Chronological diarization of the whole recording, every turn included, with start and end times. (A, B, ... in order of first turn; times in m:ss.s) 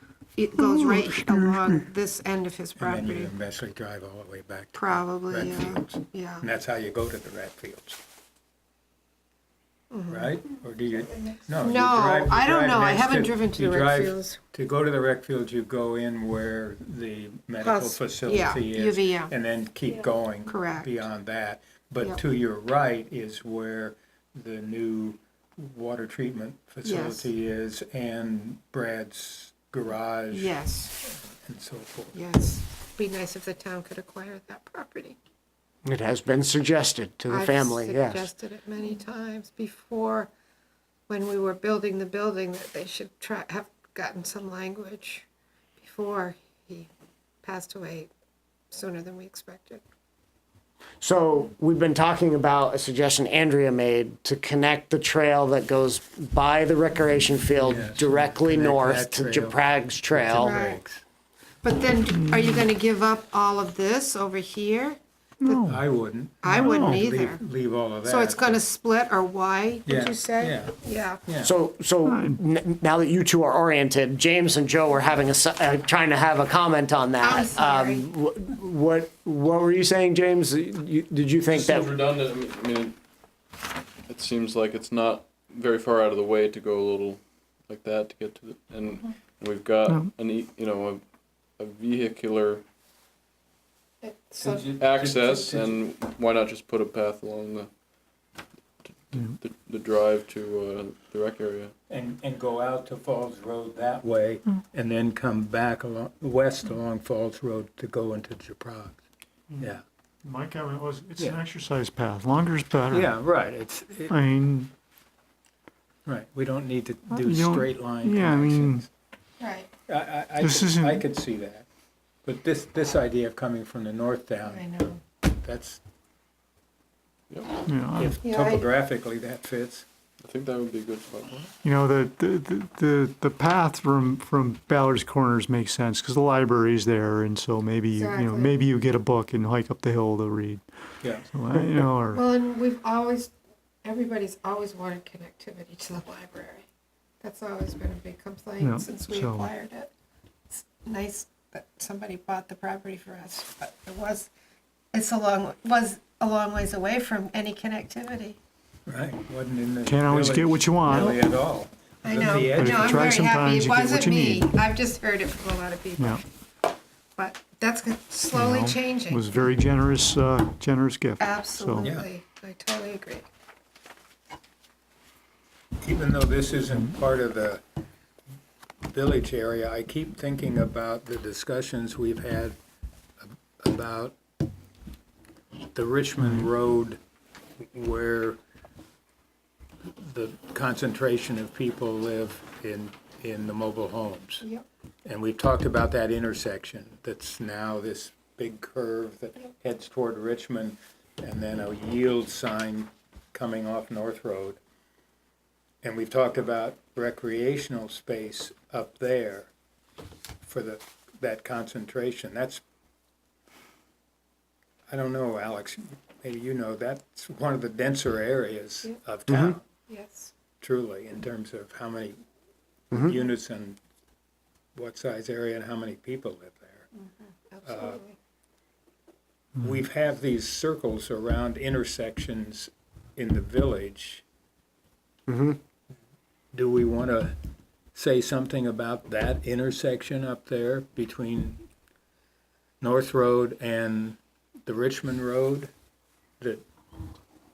0:00.4-0:03.3 A
0:00.7-0:01.5 B
0:02.8-0:08.0 C
0:04.8-0:06.5 A
0:09.9-0:10.4 A
0:10.1-0:32.2 C
0:11.6-0:14.4 A
0:17.6-0:19.3 A
0:20.5-0:20.9 A
0:26.8-0:27.3 A
0:30.3-0:30.9 A
0:32.1-0:35.2 A
0:35.8-0:38.3 D
0:37.3-0:40.3 A
0:41.1-0:45.3 A
0:45.8-0:46.9 A
0:47.4-0:48.1 A
0:48.7-0:49.8 A
0:51.0-1:00.6 D
0:57.6-1:01.0 C
1:00.4-1:00.8 A
1:01.6-1:05.0 A
1:02.1-1:02.6 B
1:05.4-1:05.8 B
1:05.5-1:08.6 C
1:06.4-1:07.4 A
1:06.5-1:07.1 B
1:08.0-1:11.2 A
1:09.9-1:11.5 C
1:11.4-1:21.9 D
1:12.1-1:12.4 B
1:17.2-1:18.1 A
1:21.5-1:23.0 E
1:24.1-1:31.0 E
1:31.6-1:32.6 E
1:34.0-1:34.8 A
1:34.4-1:35.8 C
1:34.8-1:37.7 E
1:38.8-1:41.7 E
1:41.9-1:49.0 C
1:50.2-1:53.1 B
1:52.9-1:54.2 C
1:54.1-1:54.7 B
1:56.1-1:58.9 C
1:57.1-1:58.8 B
1:59.4-1:59.7 A
1:59.9-2:01.7 C
2:00.4-2:01.0 B
2:02.2-2:04.7 C
2:04.5-2:05.0 A
2:05.2-2:05.8 C
2:07.7-2:08.2 B
2:07.9-2:09.8 C
2:08.2-2:08.7 A
2:10.2-2:11.5 E
2:11.6-2:20.6 B
2:17.9-2:18.5 A
2:21.3-2:22.2 B
2:22.1-2:23.3 A
2:23.8-2:26.6 A
2:27.2-2:29.9 A
2:28.6-2:29.5 B
2:30.5-2:34.3 A
2:34.9-2:38.4 A
2:38.9-2:43.2 C
2:39.8-2:41.2 B
2:42.0-2:46.2 A
2:42.2-2:44.5 B
2:47.2-2:49.2 A
2:48.3-2:51.9 B
2:51.2-2:53.3 A
2:55.8-2:57.6 C
2:58.9-3:02.6 C
3:03.2-3:04.2 C
3:05.7-3:07.0 C
3:07.7-3:08.4 C
3:10.0-3:14.4 C
3:15.0-3:24.6 C
3:25.8-3:29.5 C
3:30.4-3:32.6 C
3:34.9-3:39.7 C
3:39.3-3:39.6 D
3:39.9-3:40.3 A
3:40.6-3:42.2 C
3:42.9-3:43.8 C
3:44.8-3:46.9 C
3:47.5-3:48.2 A
3:47.6-3:48.0 C
3:49.6-3:54.2 C
3:55.3-3:55.6 D
3:56.5-3:57.4 C
3:57.9-4:01.6 C
4:02.8-4:05.7 C